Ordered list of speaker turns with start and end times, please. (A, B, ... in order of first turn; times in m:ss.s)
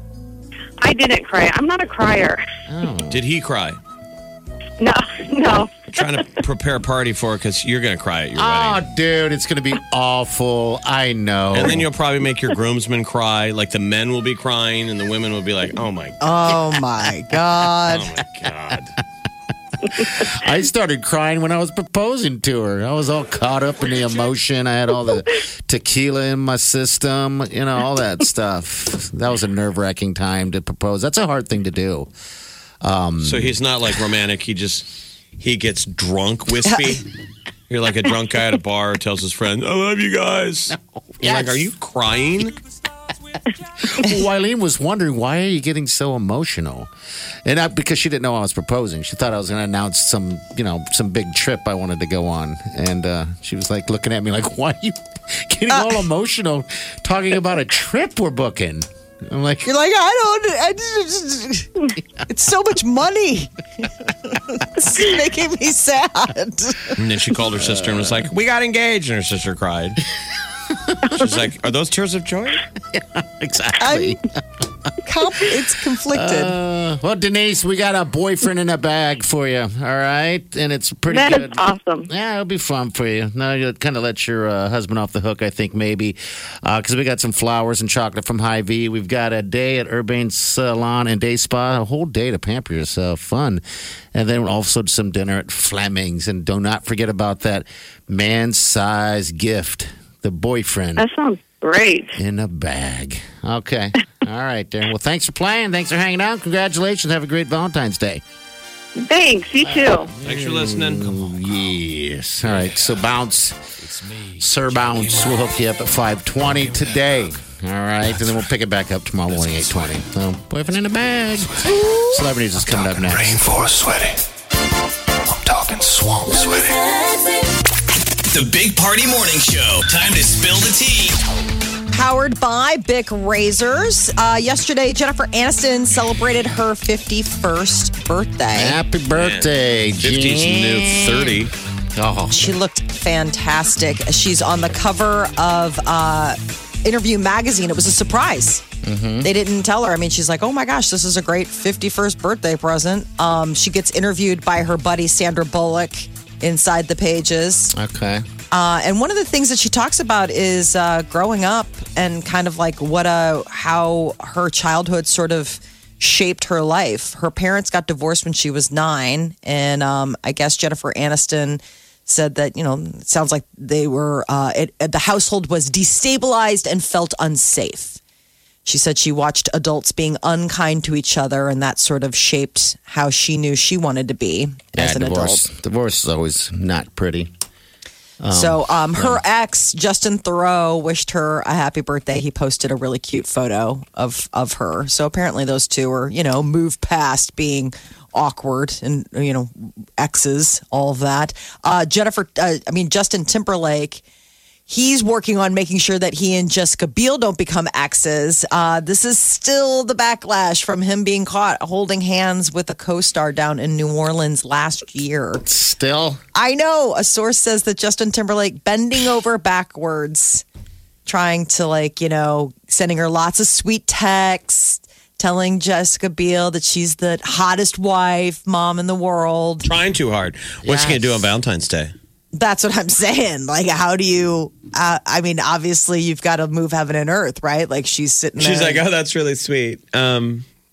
0:00.8-0:02.4 A
0:02.7-0:03.2 B
0:03.1-0:03.8 C
0:04.8-0:06.2 A
0:05.9-0:08.8 C
0:08.4-0:11.8 B
0:11.5-0:16.2 C
0:16.2-0:18.1 D
0:17.9-0:18.9 C
0:19.9-0:32.1 B
0:32.8-0:33.5 B
0:33.2-0:34.9 C
0:35.4-0:37.0 C
0:37.7-0:42.6 C
0:41.2-0:41.6 B
0:43.8-0:46.9 B
0:47.4-0:59.7 B
0:55.7-0:56.0 D
0:59.6-1:03.5 D
1:04.3-1:06.9 D
1:07.0-1:10.0 C
1:07.6-1:08.3 B
1:10.7-1:11.2 B
1:11.1-1:12.6 C
1:12.9-1:14.3 B
1:13.8-1:14.2 D
1:15.0-1:16.6 D
1:16.1-1:33.6 B
1:21.1-1:22.1 A
1:34.1-1:41.1 B
1:41.0-1:42.1 A
1:42.1-1:48.2 B
1:49.0-1:50.1 A
1:49.6-1:53.6 B
1:50.2-1:51.2 C
1:52.4-1:52.9 E
1:53.8-1:55.6 E
1:54.4-2:03.4 B
1:56.3-1:57.3 E
1:58.0-1:58.5 E
1:59.3-2:00.0 E
2:01.4-2:04.2 E
2:01.7-2:02.1 D
2:05.2-2:07.0 E
2:08.3-2:11.2 F
2:11.9-2:18.8 D
2:18.5-2:22.5 B
2:19.2-2:21.5 C
2:22.3-2:28.6 D
2:28.8-2:29.3 B
2:29.2-2:37.7 D
2:37.7-2:38.2 B
2:38.5-2:58.0 D
2:58.6-3:05.4 D
3:04.7-3:07.3 B
3:08.2-3:09.2 B
3:08.3-3:24.0 D
3:24.7-3:35.4 D
3:35.4-3:36.2 B
3:36.3-3:40.4 D
3:41.0-3:49.7 D
3:49.6-3:51.9 C
3:50.6-3:51.2 B
3:52.3-3:58.8 D
3:58.4-4:00.4 C